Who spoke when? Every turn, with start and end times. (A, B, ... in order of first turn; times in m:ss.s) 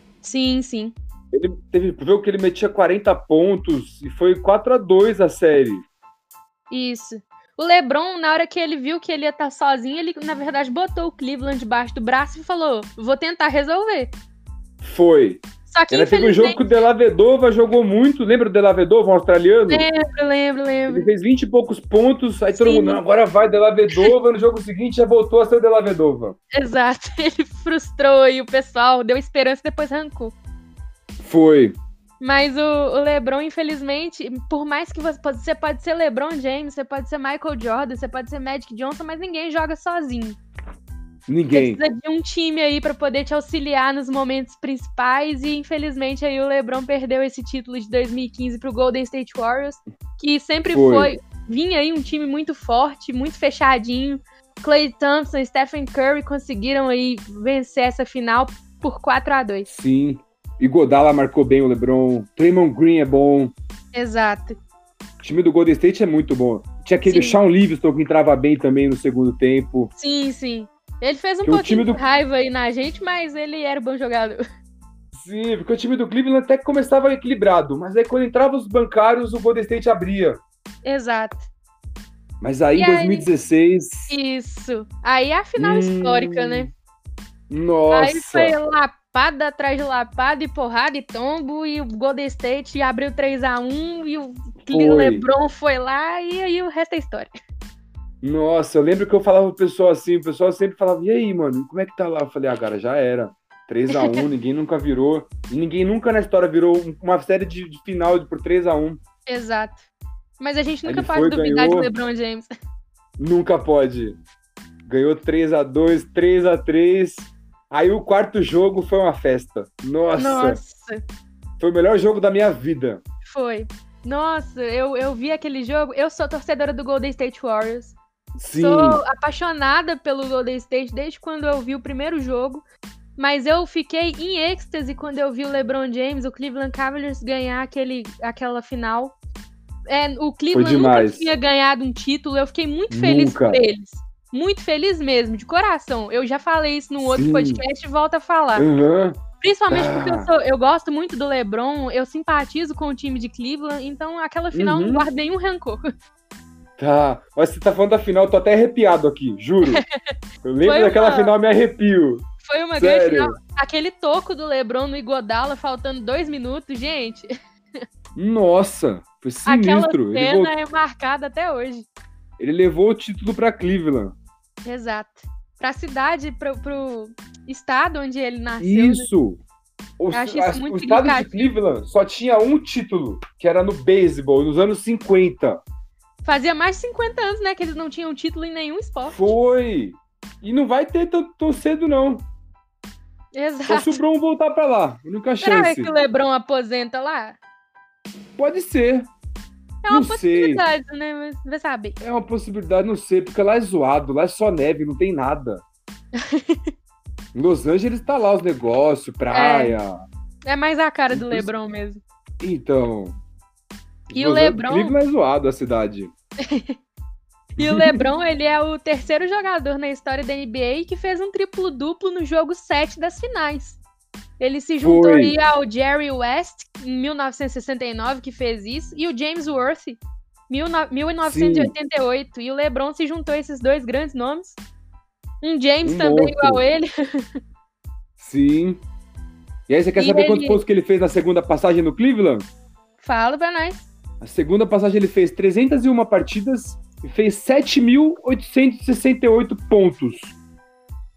0:00.2-0:00.9 A
0:01.3-0:05.8 B
0:06.7-0:14.1 A
0:14.8-0:19.9 B
0:15.7-0:16.6 A
0:19.7-0:21.1 A
0:20.9-0:26.4 B
0:22.5-0:23.0 A
0:26.5-0:30.3 A
0:31.2-0:31.8 B
0:32.2-0:40.4 A
0:41.3-0:41.8 B
0:41.5-0:59.7 A
0:50.7-0:51.1 B
0:59.7-1:03.5 B
1:03.9-1:04.6 A
1:05.2-1:09.9 B
1:07.0-1:07.4 A
1:10.0-1:14.4 A
1:11.4-1:12.0 B
1:15.1-1:20.4 B
1:20.8-1:21.4 A
1:22.4-1:24.1 B
1:22.7-1:23.3 A
1:24.1-1:26.7 A
1:25.6-1:26.7 B
1:27.5-1:28.5 B
1:27.9-1:37.3 A
1:34.7-1:35.2 B
1:38.2-1:49.0 B
1:43.9-1:44.2 A
1:49.3-1:49.9 A
1:50.4-1:52.5 A
1:50.8-1:51.9 B
1:53.2-1:54.2 B
1:54.9-2:00.6 B
2:00.2-2:01.0 A
2:01.6-2:03.0 B
2:03.2-2:08.0 A
2:08.4-2:09.0 B
2:08.6-2:12.6 A
2:13.2-2:19.1 A
2:19.9-2:28.7 A
2:20.5-2:21.3 B
2:22.9-2:23.6 B
2:27.0-2:27.6 B
2:28.6-2:29.2 B
2:29.4-2:35.8 A
2:29.7-2:30.3 B
2:34.5-2:35.1 B
2:36.8-2:39.8 B
2:40.4-2:42.2 B
2:40.6-2:41.3 A
2:42.4-2:47.3 A
2:42.8-2:43.4 B
2:48.2-2:50.5 B
2:49.4-2:51.9 A
2:52.4-2:54.1 B
2:54.6-2:59.1 A
2:58.6-2:59.4 B
3:00.0-3:05.6 B
3:00.1-3:01.5 A
3:06.2-3:09.2 A
3:09.1-3:12.2 B
3:13.3-3:14.0 A
3:13.7-3:15.9 B
3:15.4-3:17.4 A
3:18.4-3:19.1 B
3:19.8-3:22.0 A
3:19.9-3:20.6 B
3:22.0-3:25.6 B
3:26.2-3:26.6 A
3:27.3-3:30.0 B
3:29.3-3:29.8 A
3:30.4-3:32.0 A
3:31.1-3:31.5 B
3:32.4-3:33.1 B
3:34.1-3:36.1 B
3:34.1-3:34.9 A
3:36.4-3:36.7 A
3:37.6-3:38.0 B
3:37.6-3:43.8 A
3:44.4-3:54.6 A
3:44.8-3:45.4 B
3:51.2-3:51.7 B
3:55.4-3:57.3 A
3:55.8-3:56.6 B
3:58.2-3:58.8 B
3:59.7-4:02.5 B
4:00.0-4:00.6 A
4:03.0-4:03.9 A
4:04.2-4:10.3 B